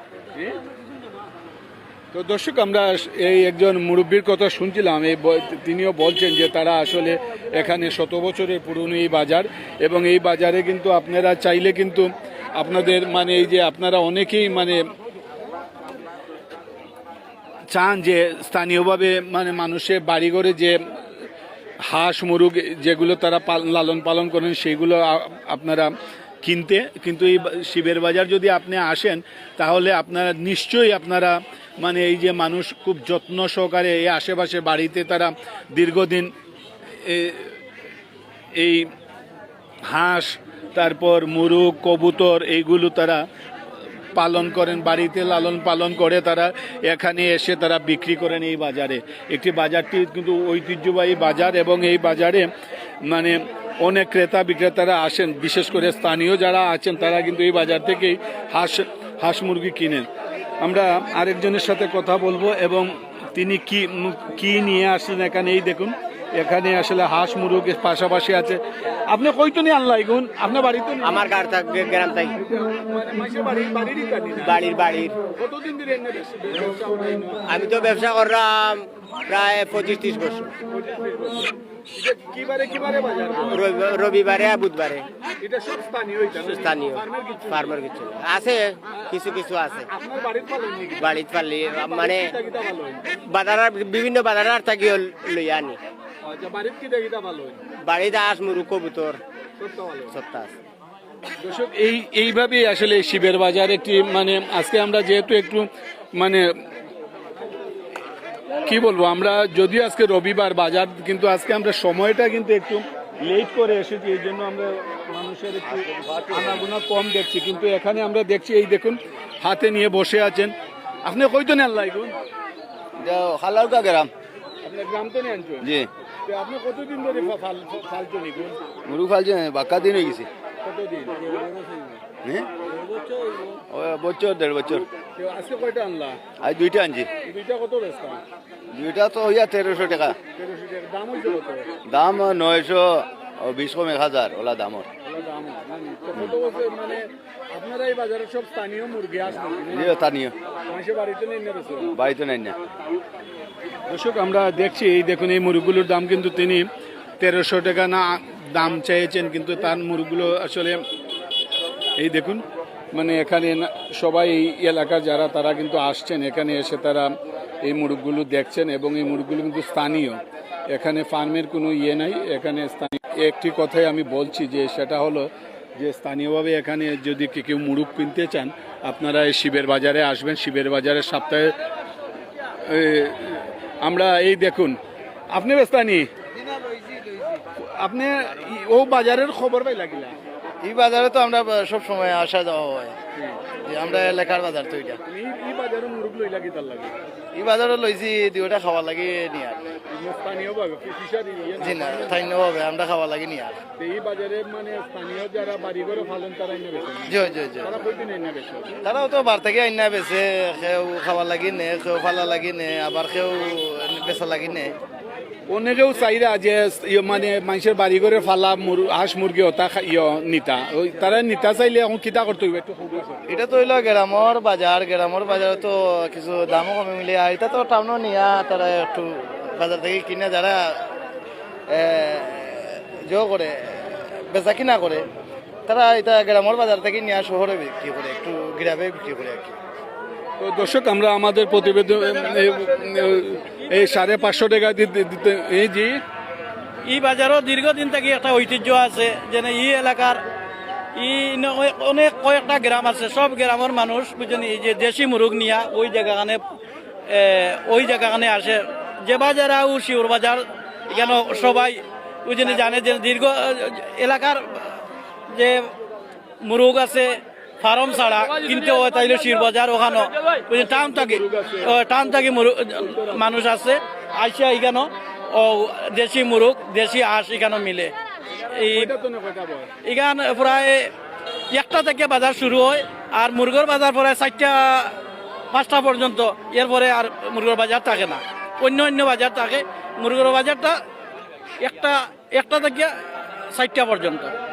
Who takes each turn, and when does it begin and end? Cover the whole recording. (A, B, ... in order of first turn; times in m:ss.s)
0:02.1-0:14.8 A
0:17.7-0:20.8 A
0:21.9-0:25.9 A
0:26.4-0:36.3 A
0:37.0-0:37.5 A
0:38.6-0:38.9 A
0:39.9-0:43.2 A
0:44.1-0:52.5 A
0:53.1-1:00.1 A
1:00.6-1:11.3 A
1:11.0-1:12.4 B
1:12.4-1:14.7 A
1:14.4-1:15.1 B
1:15.4-1:17.5 A
1:17.5-1:20.5 B
1:20.7-1:23.6 A
1:23.5-1:25.0 B
1:25.4-1:27.8 A
1:26.4-1:29.8 B
1:28.9-1:29.2 A
1:29.9-1:33.0 A
1:31.0-1:32.3 B
1:33.3-1:35.8 B
1:36.2-1:37.6 A
1:37.9-1:39.2 B
1:39.6-1:40.1 A
1:40.2-1:40.5 B
1:41.4-1:46.5 A
1:48.6-2:00.5 A
1:55.9-1:56.6 C
2:01.0-2:02.1 A
2:03.0-2:04.1 C
2:04.6-2:05.7 A
2:06.2-2:08.6 A
2:08.9-2:10.3 C
2:10.6-2:11.4 A
2:12.8-2:13.6 A
2:13.7-2:14.9 C
2:15.2-2:16.2 A
2:16.4-2:17.1 C
2:17.2-2:18.2 A
2:18.7-2:20.2 C
2:20.4-2:21.6 A
2:21.9-2:24.9 C
2:25.0-2:30.1 A
2:29.8-2:30.3 C
2:30.7-2:31.9 A
2:32.0-2:32.6 C
2:33.9-2:36.6 A
2:37.2-2:40.8 A
2:42.0-2:47.1 A
2:47.6-3:01.5 A
3:02.6-3:04.8 A
3:05.3-3:06.1 A
3:07.6-3:10.2 A
3:10.6-3:13.0 D
3:13.1-3:14.2 A
3:13.6-3:15.0 D
3:15.1-3:17.0 A
3:17.4-3:19.6 D
3:19.9-3:22.3 A
3:21.6-3:23.6 D
3:23.8-3:28.8 A
3:27.1-3:27.7 D
3:28.8-3:34.7 D
3:35.5-3:43.3 A
3:43.3-3:50.7 D
3:51.7-3:55.0 D
3:55.7-3:59.6 D
4:00.4-4:06.0 A
4:06.8-4:10.2 E
4:11.0-4:16.4 E
4:17.1-4:24.8 E
4:25.3-4:25.6 E
4:26.4-4:37.9 E
4:30.5-4:31.8 A
4:32.8-4:33.3 A
4:38.5-4:38.9 E
4:38.7-4:39.7 A
4:39.8-4:40.8 E
4:41.5-4:44.9 E
4:45.5-4:50.8 E
4:51.6-4:52.9 E
4:53.5-4:54.3 E